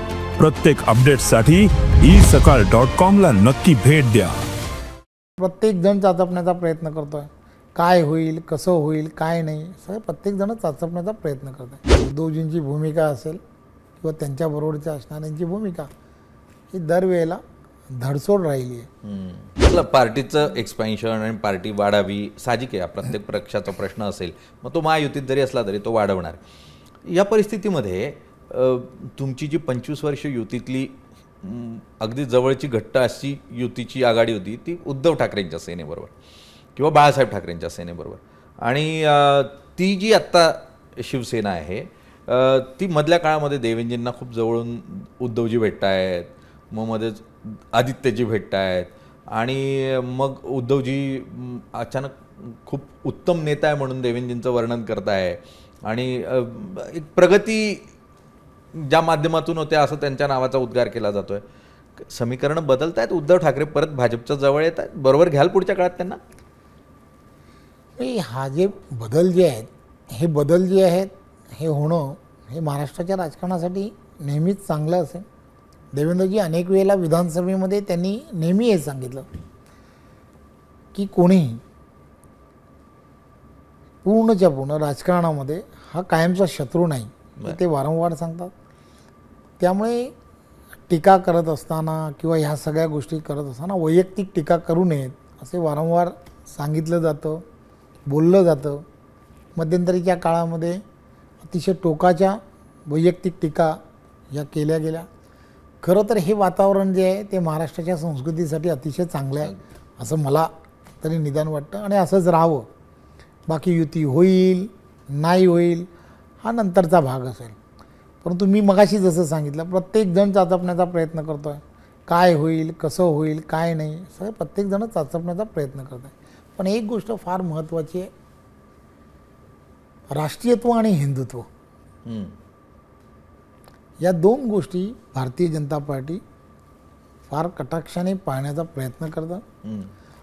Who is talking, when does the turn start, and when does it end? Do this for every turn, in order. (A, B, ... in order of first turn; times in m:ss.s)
0:00.4-0:04.3 A
0:05.4-0:13.4 B
0:14.0-0:15.9 B
0:16.7-0:18.9 B
0:19.0-0:26.4 C
0:27.0-0:36.1 C
0:36.8-0:57.9 C
0:58.7-1:01.4 C
1:02.0-1:06.2 C
1:08.0-1:15.2 B
1:15.9-1:19.3 B
1:20.9-1:21.6 B
1:24.0-1:28.5 B
1:29.6-1:30.1 B
1:30.9-1:37.4 B
1:38.1-1:38.8 B
1:39.5-1:40.8 B
1:41.4-1:43.8 B
1:44.3-1:45.1 B
1:45.8-1:52.7 B
1:53.5-1:55.9 B
1:56.4-1:57.6 B
1:58.2-2:08.1 B
2:10.1-2:11.5 B
2:12.0-2:12.3 C
2:14.0-2:16.2 B
2:17.3-2:19.4 B
2:19.6-2:19.9 C